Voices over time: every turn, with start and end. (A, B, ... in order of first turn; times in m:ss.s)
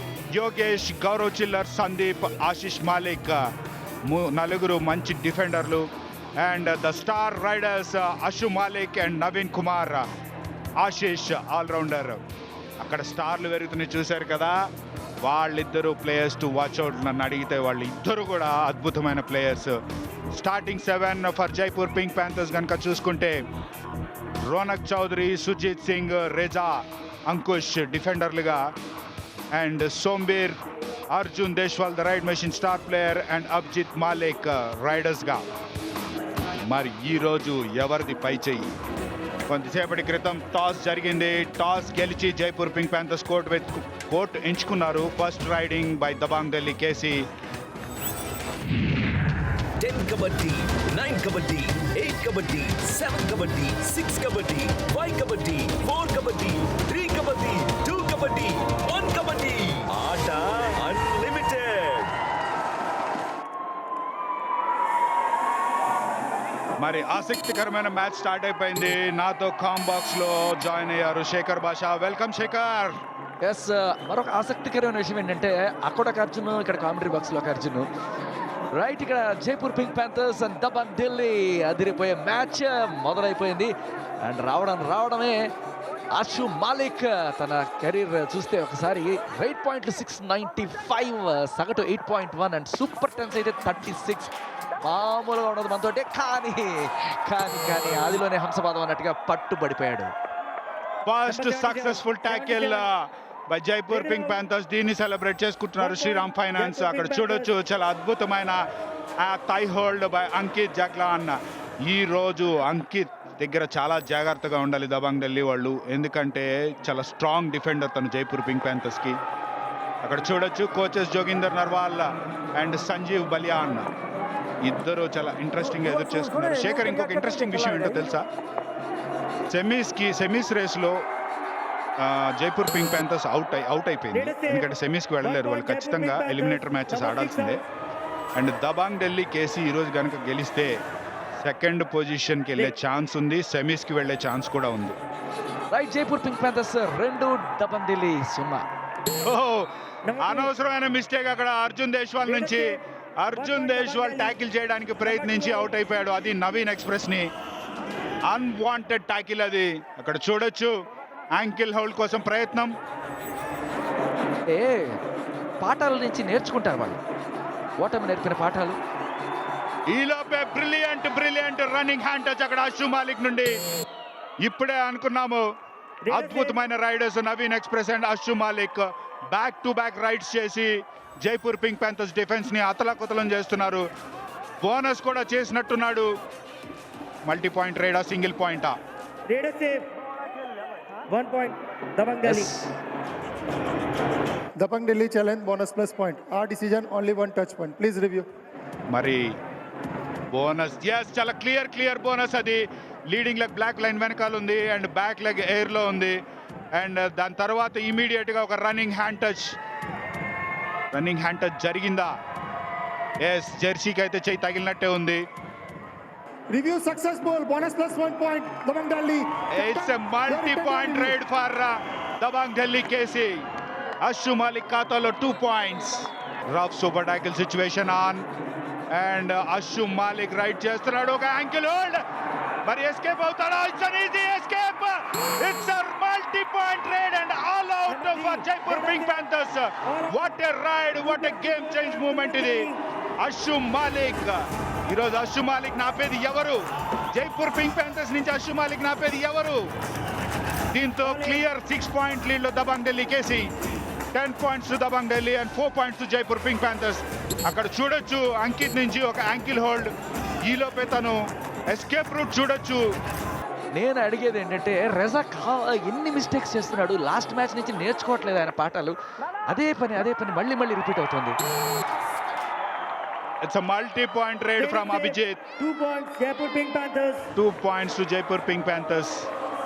0:00.3-0:03.4 A
0:04.1-0:05.8 A
0:06.4-0:10.0 A
0:10.8-0:12.2 A
0:12.8-0:14.5 A
0:15.2-0:19.8 A
0:20.3-0:23.4 A
0:24.5-0:28.6 A
0:29.5-0:30.6 A
0:31.1-0:35.4 A
0:36.6-0:38.7 A
0:39.5-0:47.2 A
0:49.8-1:02.1 B
1:06.8-1:12.9 A
1:13.4-1:17.8 C
1:18.8-1:25.4 C
1:26.1-1:40.1 C
1:41.1-1:43.0 A
1:41.3-1:42.8 D
1:43.5-1:48.6 A
1:45.8-1:47.4 D
1:49.2-1:59.1 A
2:00.0-2:02.0 A
2:02.6-2:03.9 A
2:04.6-2:08.2 A
2:09.5-2:11.0 A
2:12.0-2:17.6 A
2:14.2-2:14.6 D
2:15.3-2:17.5 D
2:18.4-2:20.7 A
2:21.4-2:25.0 A
2:25.7-2:28.6 C
2:29.2-2:29.7 A
2:30.1-2:30.4 D
2:30.2-2:37.2 A
2:32.3-2:32.7 D
2:33.4-2:34.3 D
2:35.2-2:35.6 D
2:38.3-2:40.7 A
2:41.3-2:42.7 A
2:44.5-2:45.0 C
2:45.6-2:47.0 C
2:47.8-2:48.8 C
2:49.9-2:53.5 A
2:54.4-2:55.4 A
2:56.1-2:56.5 D
2:56.1-3:03.8 A
3:04.6-3:06.1 A
3:07.2-3:08.7 A
3:09.3-3:09.9 D
3:11.1-3:12.5 D
3:14.6-3:18.3 E
3:18.9-3:19.3 A
3:20.3-3:26.2 A
3:26.8-3:29.5 A
3:30.9-3:32.1 A
3:33.2-3:35.2 A
3:36.5-3:41.2 E
3:39.5-3:43.4 A
3:44.0-3:48.2 A
3:48.9-3:52.0 A
3:52.6-4:06.6 A
3:58.1-3:58.4 D
4:01.5-4:02.7 D
4:07.1-4:09.7 A
4:10.7-4:13.5 A
4:14.1-4:19.9 A
4:20.4-4:22.8 A
4:23.7-4:29.0 C
4:29.5-4:31.4 C
4:33.4-4:35.4 A
4:34.6-4:37.3 D
4:37.4-4:39.3 A